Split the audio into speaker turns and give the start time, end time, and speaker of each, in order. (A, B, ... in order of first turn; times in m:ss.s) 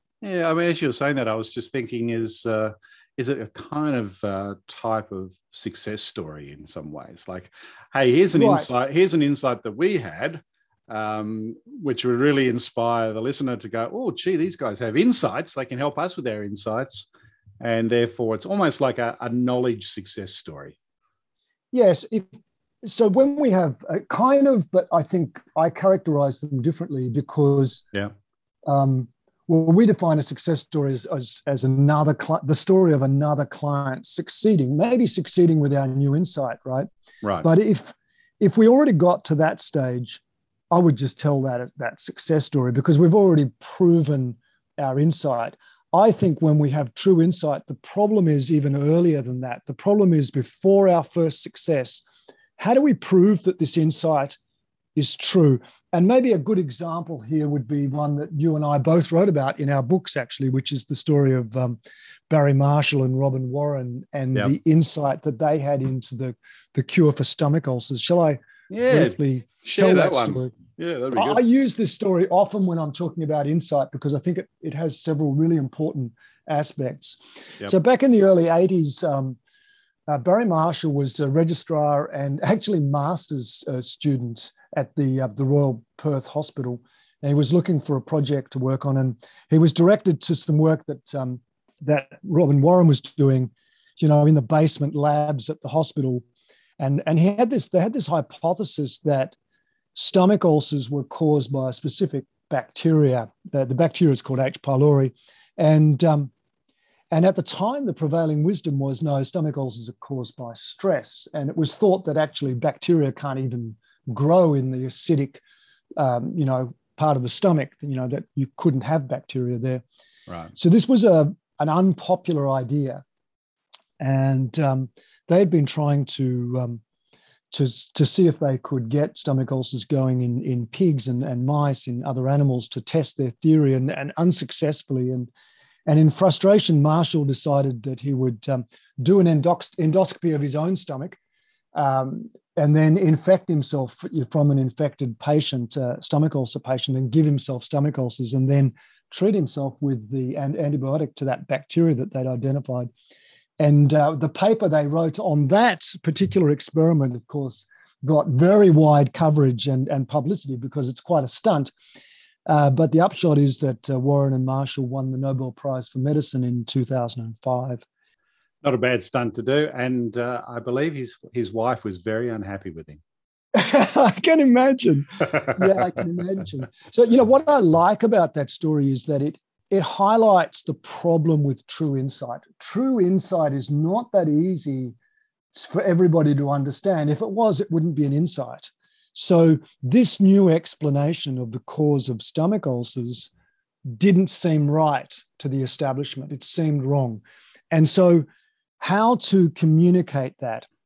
0:00.2-0:17.1 A
0:08.3-0:08.7 B
0:17.6-0:20.8 A
0:21.7-0:22.3 B
0:22.8-0:27.8 B
0:28.7-0:36.9 B
0:37.4-0:52.0 B
0:52.6-0:54.4 B
0:55.0-1:01.8 B
1:02.3-1:10.5 B
1:08.7-1:11.4 A
1:11.2-1:19.4 B
1:20.1-1:36.2 B
1:36.8-1:39.4 B
1:40.0-1:46.3 B
1:47.1-1:55.4 B
1:56.0-1:59.8 B
2:00.6-2:03.0 B
2:04.0-2:06.8 B
2:07.5-2:15.3 B
2:15.9-2:21.2 B
2:21.8-2:32.9 B
2:33.6-2:41.7 B
2:42.5-2:47.8 B
2:48.6-2:53.0 A
2:53.5-3:05.0 B
3:05.5-3:13.3 B
3:13.9-3:17.2 B
3:17.7-3:18.2 B
3:18.8-3:20.7 B